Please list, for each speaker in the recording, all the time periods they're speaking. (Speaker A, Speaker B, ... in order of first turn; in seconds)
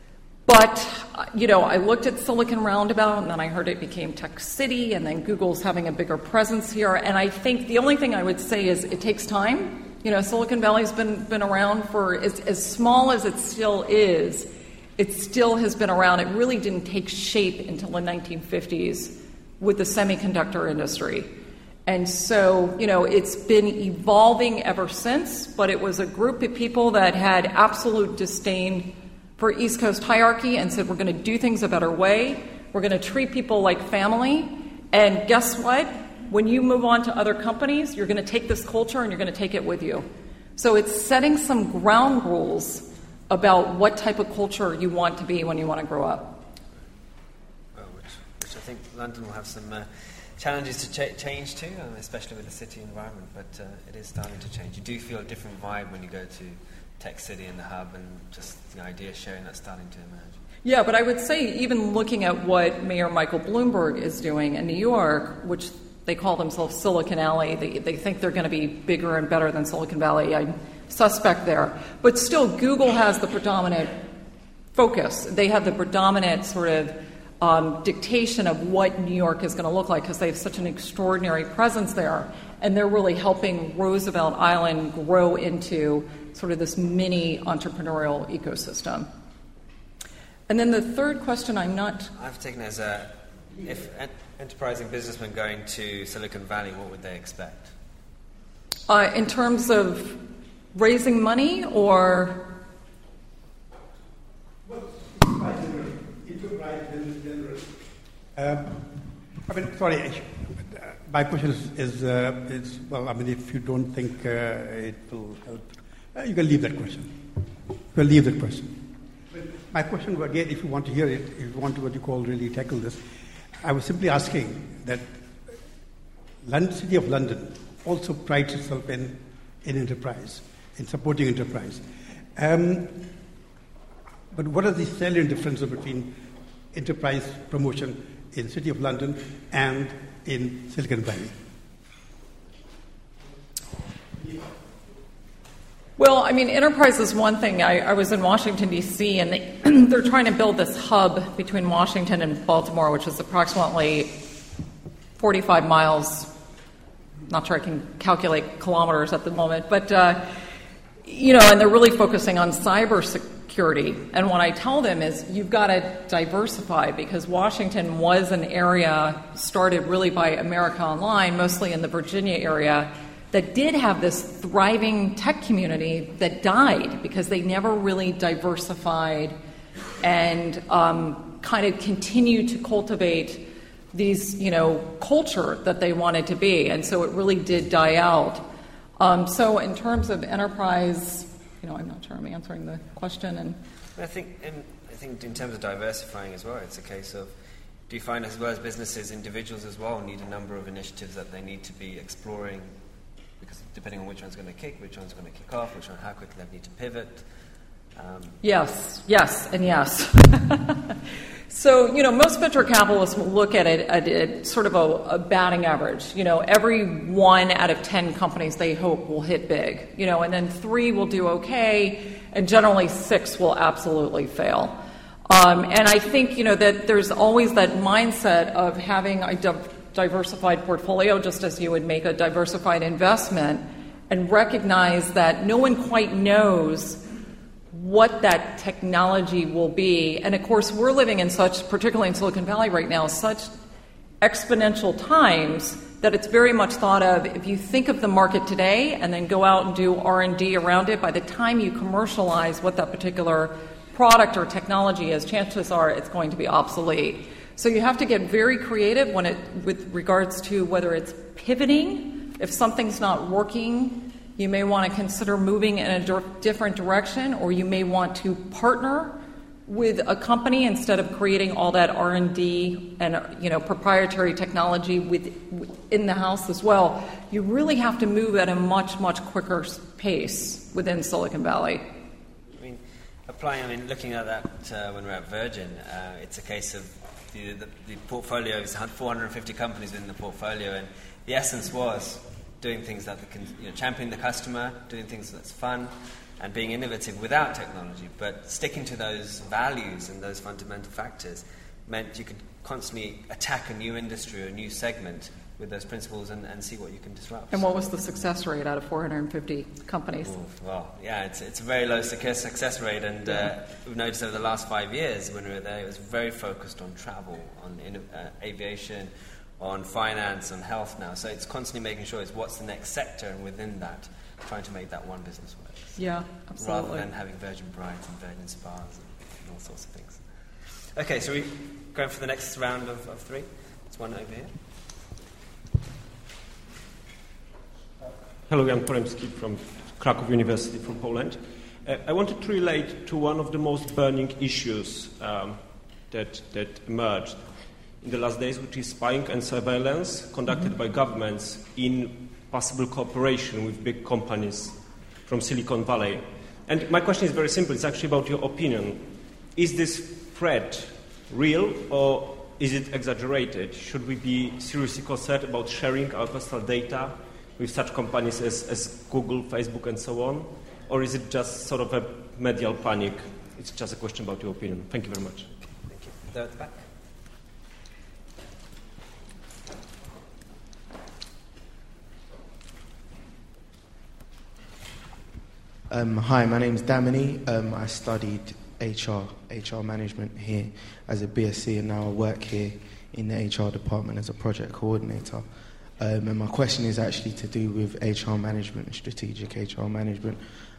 Speaker A: 0.5-21.3, 21.9-46.4, 60.6-74.0, 74.7-89.1, 90.5-92.1, 98.9-100.2, 100.7-102.5, 146.0-154.2, 155.2-156.3, 157.3-160.3, 161.0-179.3, 180.0-188.5, 189.0-193.6, 208.4-237.0, 237.7-243.5, 244.2-281.8, 307.5-310.3, 326.0-327.1
Speaker B: 47.8-60.4, 92.1-97.7, 194.0-197.3, 197.9-202.8, 203.4-207.3, 207.9-208.4, 282.5-307.9, 310.2-326.0, 326.6-334.6, 375.7-376.9
Speaker C: 104.6-107.7, 108.3-108.9, 109.5-117.2, 117.9-118.8, 119.3-123.0, 123.6-125.6, 126.4-133.1, 134.3-136.2, 136.7-141.4
Speaker D: 338.5-375.5
Speaker E: 385.9-395.5, 396.0-400.4